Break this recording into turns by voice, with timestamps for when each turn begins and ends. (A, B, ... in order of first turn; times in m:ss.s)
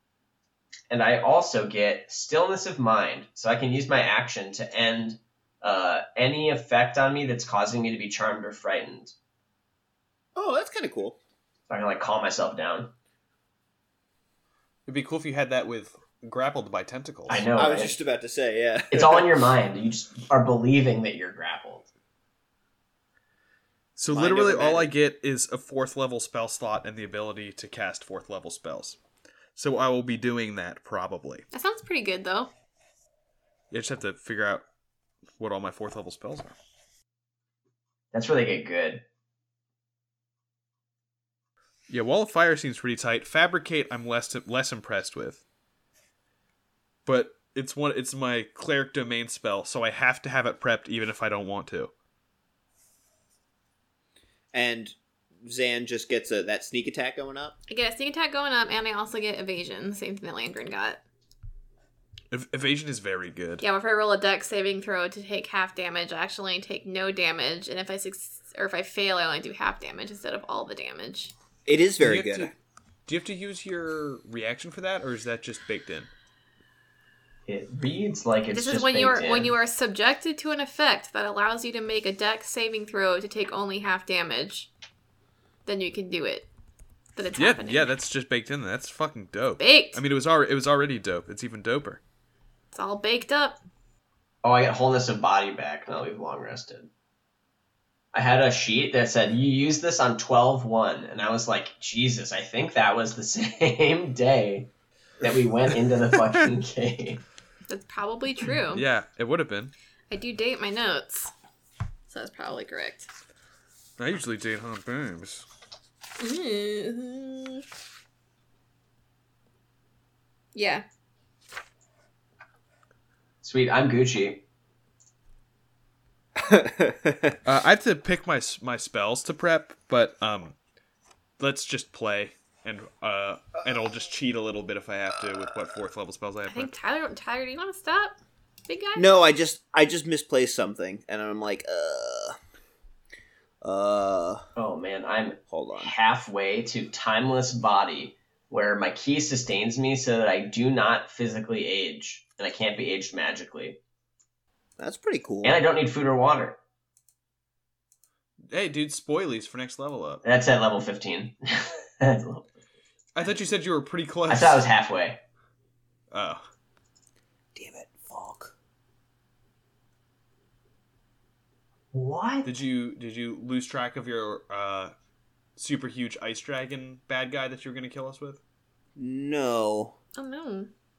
0:00.9-0:09.1 A
0:10.4-0:11.2 B
0:11.7-0:12.9 A
0:14.9-0:17.4 C
0:17.3-0:18.0 A
0:17.6-0:19.3 B
0:18.9-0:21.9 A
0:24.0-0:29.0 C
0:24.1-0:24.9 B
0:29.6-0:31.5 C
0:31.5-0:32.5 D
0:33.7-0:34.6 C
0:35.4-0:36.6 C
0:38.1-0:39.0 A
0:41.9-0:45.4 C
0:47.1-0:51.9 C
0:54.5-0:57.6 B
0:57.7-1:01.0 D
1:02.3-1:03.6 C
1:03.6-1:11.3 D
1:11.7-1:12.5 B
1:12.0-1:12.5 C
1:13.1-1:16.1 C
1:17.5-1:19.5 A
1:18.5-1:24.7 D
1:25.7-1:26.5 D
1:27.2-1:27.9 D
1:27.4-1:32.0 C
1:29.6-1:30.0 D
1:32.7-1:33.6 D
1:34.4-1:36.9 A
1:38.1-1:47.2 A
1:47.7-1:48.8 D
1:48.7-1:49.7 C
1:50.1-1:51.3 D
1:52.1-1:53.1 D
1:54.0-1:55.5 C
1:56.2-1:57.6 D
2:00.6-2:00.8 D
2:03.4-2:04.4 A
2:06.4-2:07.4 B
2:07.4-2:10.6 C
2:11.4-2:16.7 C
2:16.5-2:18.2 D
2:18.7-2:19.1 D
2:19.0-2:22.4 B
2:23.6-2:24.5 B
2:24.6-2:33.8 A
2:25.5-2:25.9 B
2:34.8-2:35.6 B
2:35.4-2:36.6 A
2:38.5-2:40.2 C
2:40.2-2:42.5 A
2:43.2-2:44.6 C
2:44.3-2:45.2 A
2:46.1-2:46.4 C
2:47.6-2:48.5 B
2:51.9-2:52.5 A
2:52.4-2:54.9 C
2:55.6-2:58.4 C
2:59.0-3:00.0 B
3:00.2-3:00.7 D